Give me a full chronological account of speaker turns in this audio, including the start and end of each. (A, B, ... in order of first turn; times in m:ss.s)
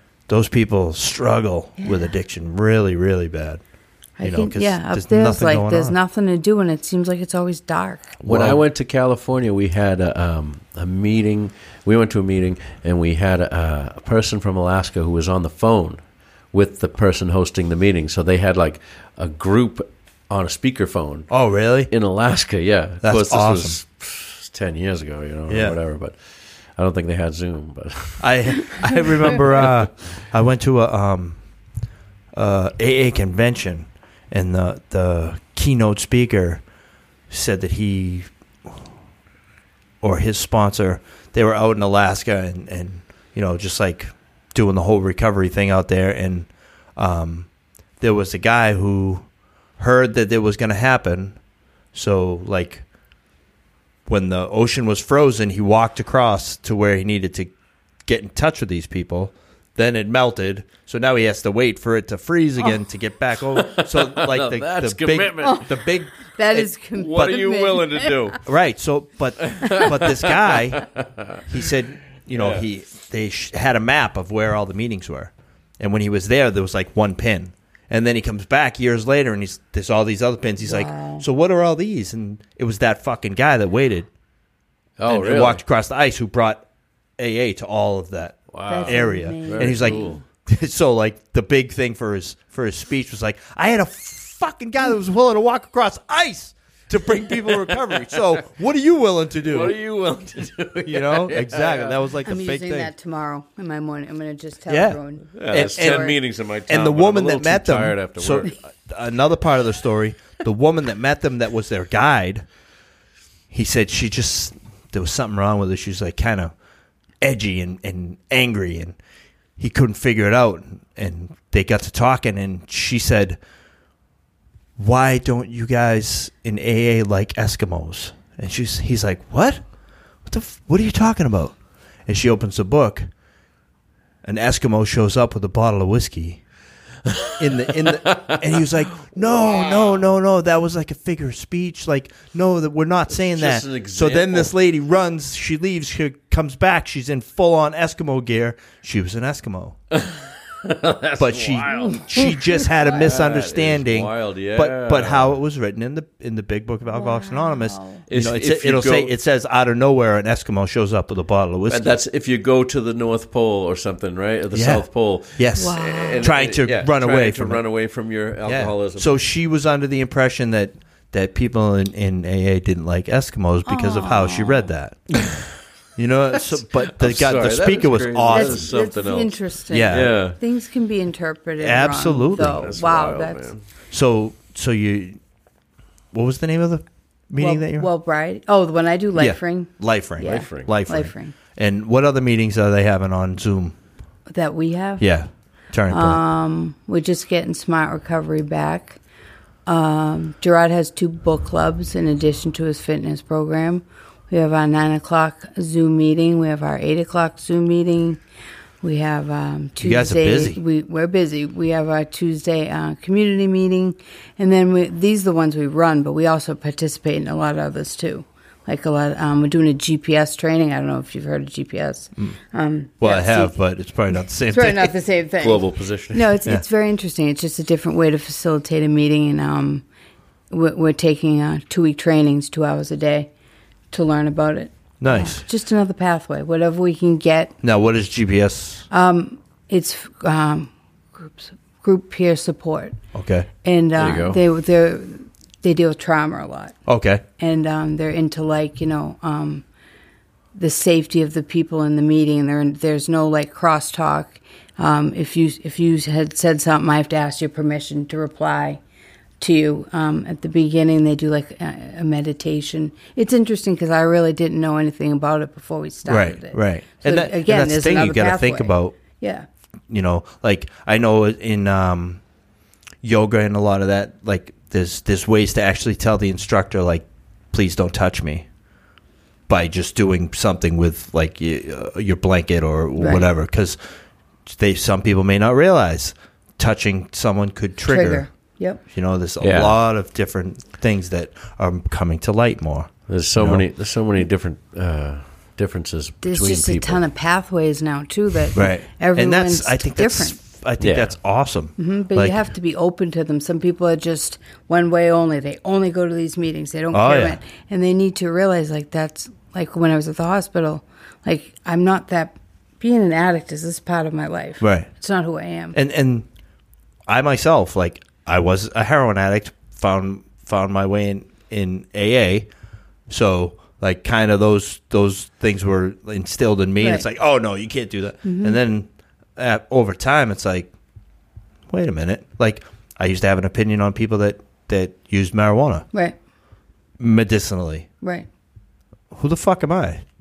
0:00.3-0:03.6 A
0:01.8-0:02.1 B
0:04.2-0:08.2 B
0:04.2-0:06.0 A
0:08.2-0:21.3 C
0:08.2-0:08.6 A
0:21.3-0:21.9 A
0:21.9-0:26.2 C
0:23.0-0:23.8 A
0:25.5-0:25.8 A
0:26.7-0:28.3 C
0:28.2-0:31.4 A
0:32.3-0:36.6 A
0:37.3-0:38.3 A
0:40.0-0:47.5 A
0:48.0-0:49.2 A
0:49.8-0:51.4 A
0:51.9-0:52.8 A
0:54.1-0:57.5 A
0:58.0-1:07.4 A
1:03.5-1:05.7 C
1:05.4-1:05.7 B
1:06.3-1:08.4 B
1:06.9-1:08.4 C
1:08.4-1:10.9 A
1:09.4-1:11.4 C
1:11.4-1:24.1 A
1:12.3-1:12.6 C
1:20.6-1:21.2 B
1:25.0-1:25.6 C
1:25.1-1:26.6 A
1:27.2-1:39.8 A
1:28.5-1:30.2 C
1:28.7-1:30.2 B
1:37.1-1:38.4 C
1:39.4-1:42.0 C
1:40.8-1:42.9 A
1:42.2-1:46.2 B
1:44.7-1:46.2 A
1:45.3-1:48.5 C
1:46.7-1:52.4 A
1:53.5-1:56.5 A
1:57.2-1:59.0 A
1:59.6-2:03.4 A
2:04.8-2:09.6 A
2:10.2-2:13.1 A
2:14.2-2:16.4 A
2:17.0-2:19.9 C
2:17.4-2:29.8 A
2:23.1-2:24.5 C
2:29.9-2:32.2 C
2:31.2-2:42.0 A
2:32.8-2:35.4 C
2:36.9-2:38.0 B
2:38.1-2:39.1 C
2:41.7-2:49.1 C
2:44.5-2:44.8 A
2:45.4-2:47.6 A
2:45.6-2:46.3 B
2:48.4-2:55.3 A
2:53.6-2:54.7 B
2:55.1-2:55.5 C
2:56.0-2:58.7 A
2:56.4-2:59.4 C
2:58.3-3:03.5 B
2:59.7-3:00.2 A
2:59.9-3:00.4 C
3:01.6-3:02.6 A
3:02.3-3:03.6 C
3:03.9-3:05.2 A
3:06.1-3:07.9 A
3:07.4-3:11.3 B
3:09.2-3:13.8 A
3:10.2-3:10.7 C
3:14.3-3:15.0 B
3:15.0-3:16.2 A
3:15.9-3:19.0 B
3:19.6-3:28.2 B
3:28.8-3:43.6 B
3:29.8-3:30.6 A
3:43.0-3:44.9 A
3:44.5-3:49.8 B
3:45.4-3:46.3 C
3:50.5-3:53.3 B
3:53.9-3:57.5 B
3:55.0-3:55.4 A
3:57.6-3:58.9 A
3:58.9-4:03.0 B
4:03.1-4:03.5 A
4:03.6-4:06.8 B
4:04.0-4:04.4 C
4:06.9-4:07.2 A
4:07.4-4:09.6 B
4:10.5-4:18.8 B
4:19.4-4:29.4 B
4:26.0-4:29.0 A
4:29.9-4:32.2 A
4:33.0-4:38.4 A
4:39.5-4:43.8 A
4:43.0-4:43.3 B
4:44.5-4:48.2 A
4:47.8-4:48.8 B
4:48.9-4:53.6 A
4:49.4-4:49.8 C
4:53.1-4:57.0 C
4:56.2-5:00.4 B
4:58.5-5:02.4 A
5:00.8-5:01.1 C
5:01.8-5:15.8 B
5:06.9-5:07.4 A
5:14.6-5:14.9 A
5:15.7-5:16.2 A
5:17.1-5:22.5 A
5:23.1-5:30.7 A
5:26.8-5:27.0 B
5:28.2-5:28.6 B
5:31.7-5:35.8 A
5:37.0-5:37.9 A
5:38.0-5:38.3 B
5:39.1-5:40.0 A